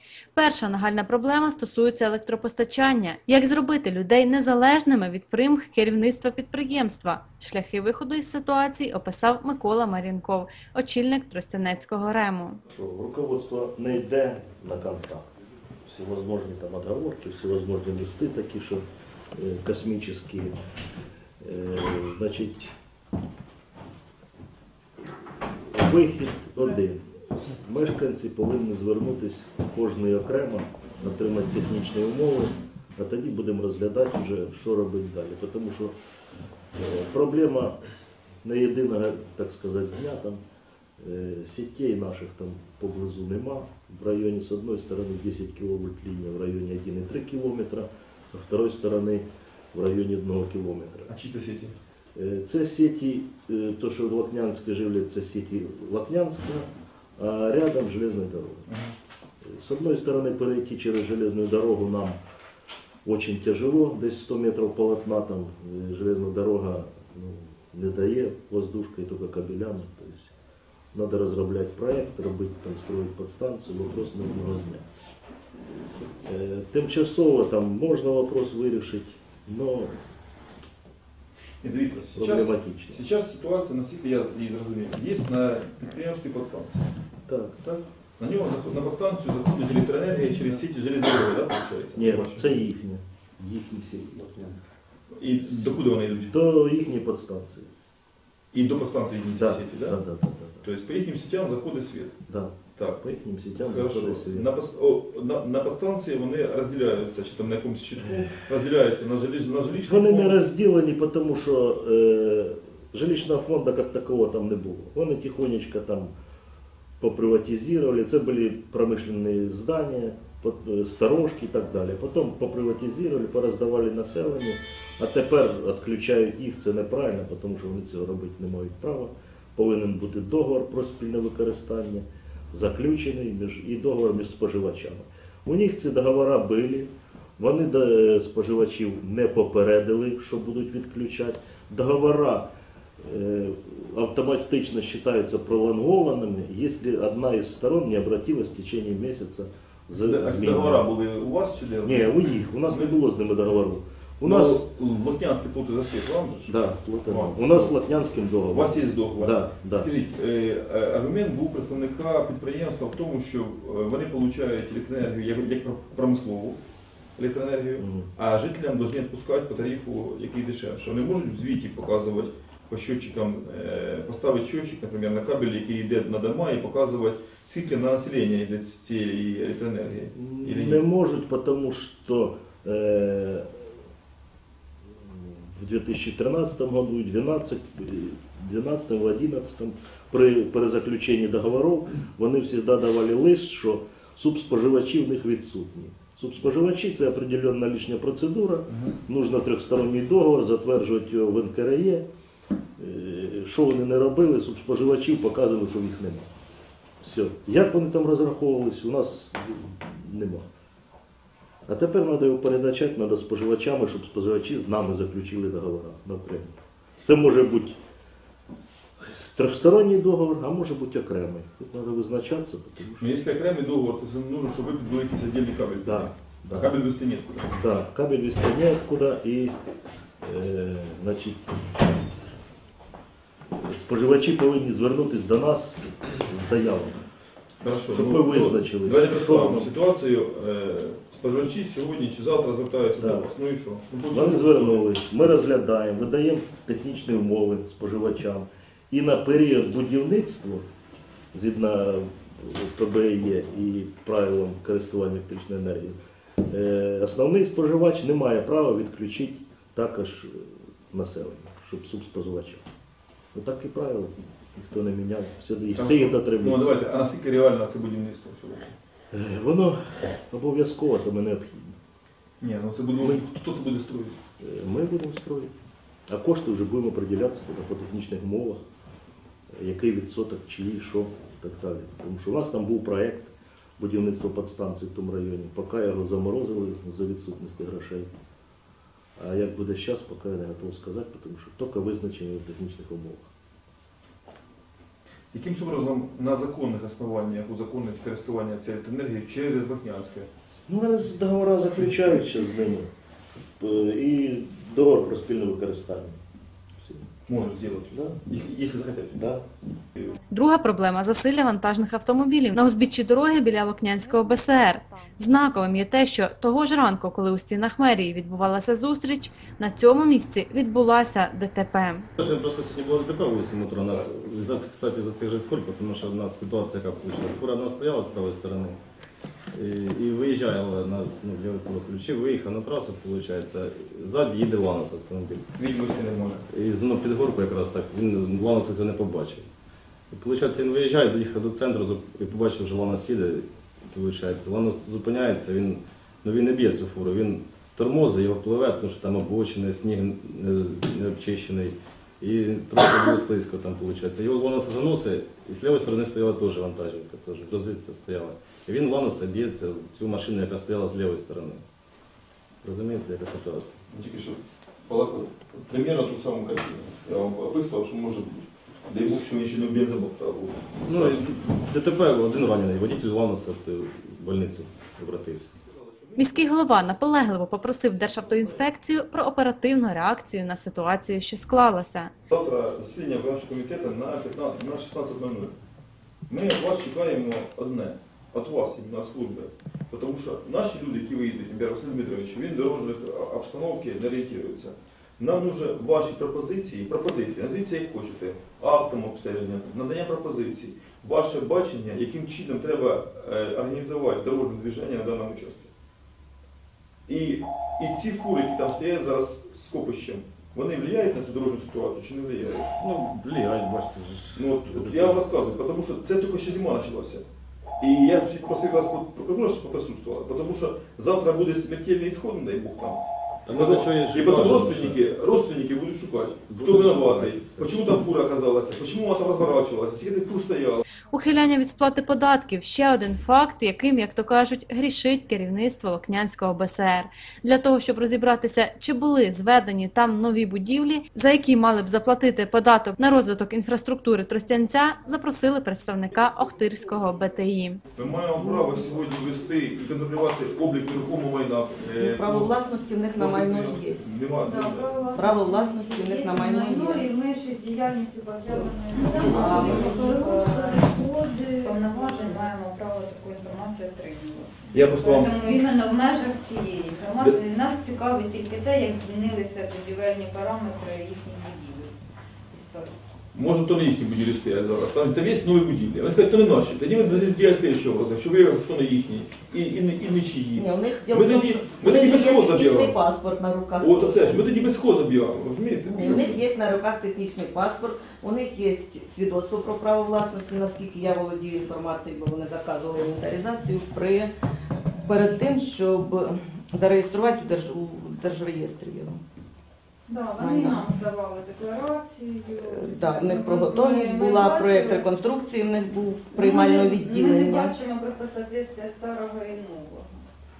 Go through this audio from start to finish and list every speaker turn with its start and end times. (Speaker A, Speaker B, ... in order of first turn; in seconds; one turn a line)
Speaker A: 0.3-12.6
Speaker B: 12.7-15.3
Speaker B: 15.8-20.6
Speaker B: 21.4-22.6
Speaker B: 25.7-35.9
Speaker B: 36.7-37.8
Speaker B: 38.4-40.4
Speaker B: 41.0-51.1
Speaker C: 51.1-51.8
Speaker B: 52.1-58.7
Speaker C: 58.7-58.9
Speaker B: 59.4-62.2
Speaker B: 63.0-70.3
Speaker B: 70.9-74.8
Speaker B: 76.2-80.0
Speaker C: 81.6-86.8
Speaker B: 82.1-83.0
Speaker B: 87.3-87.6
Speaker C: 87.6-92.5
Speaker B: 91.9-94.5
Speaker C: 95.1-96.3
Speaker B: 95.4-97.7
Speaker C: 98.5-100.0
Speaker B: 99.3-100.6
Speaker C: 100.6-102.1
Speaker B: 102.3-104.5
Speaker C: 102.7-103.0
Speaker C: 103.6-110.4
Speaker B: 109.8-116.1
Speaker B: 117.0-150.8
Speaker C: 149.9-153.0
Speaker B: 151.8-154.6
Speaker C: 154.2-157.7
Speaker B: 156.5-159.9
Speaker C: 158.5-166.6
Speaker C: 167.2-180.8
Speaker B: 167.8-168.1
Speaker B: 180.1-183.5
Speaker B: 185.0-202.1
Speaker C: 198.7-198.9
Speaker B: 202.8-206.3
Speaker B: 207.0-210.4
Speaker B: 211.7-216.5
Speaker B: 217.0-217.8
Speaker B: 219.0-223.1
Speaker C: 223.0-227.5
Speaker B: 225.8-226.8
Speaker B: 227.5-229.5
Speaker B: 230.2-231.4
Speaker B: 233.5-237.0
Speaker C: 237.6-244.9
Speaker B: 237.9-239.7
Speaker B: 243.0-243.3
Speaker B: 244.1-250.7
Speaker B: 251.3-255.9
Speaker B: 256.5-262.6
Speaker B: 263.3-266.8
Speaker C: 265.8-268.7
Speaker B: 269.1-271.8
Speaker C: 272.4-274.2
Speaker B: 274.4-275.5
Speaker B: 276.1-278.6
Speaker B: 279.5-288.1
Speaker B: 289.2-293.3
Speaker C: 295.3-300.3
Speaker B: 300.7-302.9
Speaker C: 301.9-302.3
Speaker B: 303.6-306.2
Speaker B: 306.8-307.1
Speaker C: 307.2-309.3
Speaker B: 307.9-308.2
Speaker B: 309.1-309.4
Speaker A: 310.3-322.1
Speaker D: 322.2-328.8
Speaker D: 329.5-335.4
Speaker C: 335.6-336.4
Speaker D: 336.5-339.5
Speaker D: 340.1-361.6
Speaker D: 362.6-363.8
Speaker C: 363.9-371.2
Speaker D: 370.9-375.5
Speaker C: 375.6-376.5
Speaker A: 376.2-382.1
Speaker C: 378.0-378.4
Speaker C: 382.3-385.5
Speaker C: 386.3-405.7
Speaker C: 407.1-412.7
Speaker D: 412.8-415.2
Speaker C: 414.3-417.2
Speaker C: 417.8-430.8
Speaker D: 423.4-425.0
Speaker D: 426.5-427.7
Speaker A: 431.1-447.8
Speaker C: 447.9-452.6
Speaker E: 448.4-448.8
Speaker E: 452.0-454.1
Speaker C: 453.1-455.1
Speaker F: 454.4-471.9
Speaker E: 455.1-457.1
Speaker C: 458.5-460.1
Speaker E: 459.1-460.9
Speaker E: 461.9-462.3
Speaker C: 464.7-465.5
Speaker F: 472.5-472.9
Speaker C: 473.3-483.0
Speaker E: 480.6-484.4
Speaker C: 483.8-486.4
Speaker E: 485.9-494.3
Speaker E: 494.9-499.2
Speaker F: 500.1-505.1
Speaker E: 500.4-500.9
Speaker E: 502.5-507.8
Speaker F: 506.3-510.2